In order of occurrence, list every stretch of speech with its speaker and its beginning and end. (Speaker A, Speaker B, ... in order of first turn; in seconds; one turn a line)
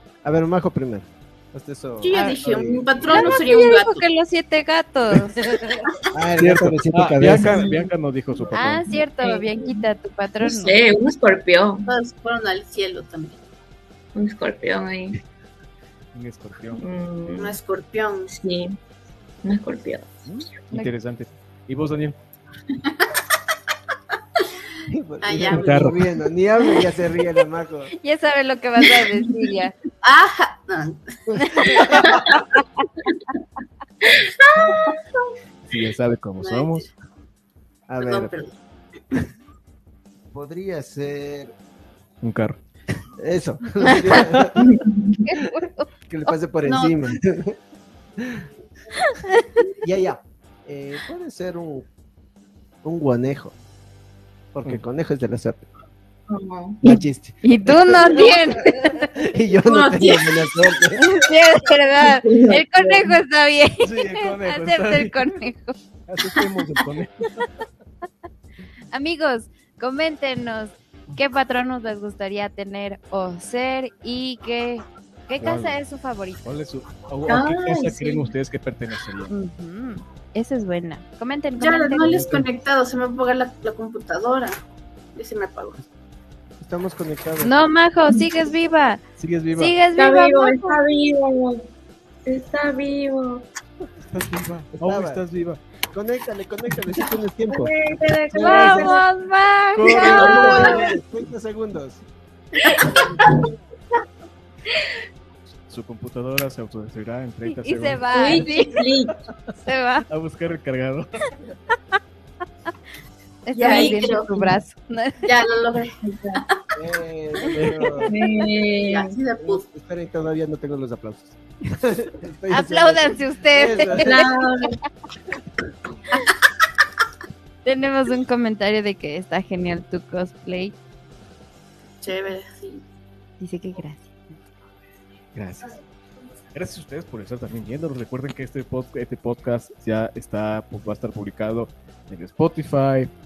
Speaker A: 0.2-3.4
Speaker B: 2.0-4.0
Speaker C: 3.1-5.6
Speaker A: 6.1-7.6
Speaker D: 6.4-8.9
Speaker E: 7.4-7.9
Speaker C: 8.5-10.8
Speaker E: 9.2-9.8
Speaker E: 10.4-11.9
Speaker B: 11.9-13.4
Speaker E: 14.2-15.2
Speaker D: 16.1-16.8
Speaker E: 16.8-17.6
Speaker B: 17.4-18.3
Speaker E: 18.3-18.8
Speaker E: 19.4-20.2
Speaker D: 20.3-22.2
Speaker A: 24.9-27.9
Speaker B: 25.2-25.9
Speaker D: 25.5-26.0
Speaker C: 28.0-29.7
Speaker B: 30.0-32.3
Speaker A: 31.3-32.2
Speaker C: 31.4-31.8
Speaker B: 34.1-35.0
Speaker D: 35.7-36.9
Speaker B: 36.4-36.9
Speaker A: 37.9-38.3
Speaker B: 38.0-38.5
Speaker A: 40.3-41.5
Speaker D: 42.2-42.6
Speaker A: 43.2-44.7
Speaker E: 44.6-45.2
Speaker C: 45.3-45.9
Speaker A: 46.1-47.6
Speaker B: 46.6-47.1
Speaker A: 48.2-48.5
Speaker C: 49.0-49.6
Speaker A: 49.8-51.9
Speaker A: 52.8-53.5
Speaker A: 54.5-55.7
Speaker E: 56.3-56.8
Speaker A: 56.8-61.1
Speaker C: 56.8-59.0
Speaker B: 59.7-60.3
Speaker C: 61.0-65.7
Speaker E: 62.0-63.0
Speaker D: 63.8-65.2
Speaker D: 66.1-67.5
Speaker C: 68.9-76.5
Speaker D: 75.4-75.8
Speaker D: 76.5-79.3
Speaker E: 77.3-78.3
Speaker C: 79.3-82.2
Speaker B: 81.6-84.6
Speaker D: 82.0-82.5
Speaker B: 85.2-85.8
Speaker A: 86.6-87.5
Speaker C: 87.4-89.0
Speaker D: 89.2-89.8
Speaker C: 89.5-90.8
Speaker E: 90.0-91.7
Speaker E: 92.3-93.5
Speaker D: 94.1-95.6
Speaker A: 94.7-95.2
Speaker A: 95.9-97.7
Speaker E: 97.5-99.0
Speaker A: 98.3-99.0
Speaker C: 98.4-100.8
Speaker D: 98.5-98.8
Speaker D: 99.8-100.9
Speaker A: 99.9-102.0
Speaker E: 100.1-100.9
Speaker D: 105.7-108.4
Speaker C: 107.5-108.8
Speaker E: 108.1-109.2
Speaker C: 109.6-110.0
Speaker D: 110.1-111.1
Speaker C: 113.5-115.3
Speaker B: 113.5-114.3
Speaker E: 113.7-114.0
Speaker B: 115.2-116.5
Speaker E: 116.0-116.4
Speaker A: 116.8-118.1
Speaker D: 117.5-118.1
Speaker E: 118.0-119.2
Speaker B: 118.8-119.7
Speaker A: 119.4-124.3
Speaker C: 122.5-124.3
Speaker E: 124.0-124.8
Speaker C: 127.7-130.8
Speaker B: 132.0-132.8
Speaker C: 133.4-134.4
Speaker D: 135.3-135.7
Speaker D: 136.5-143.1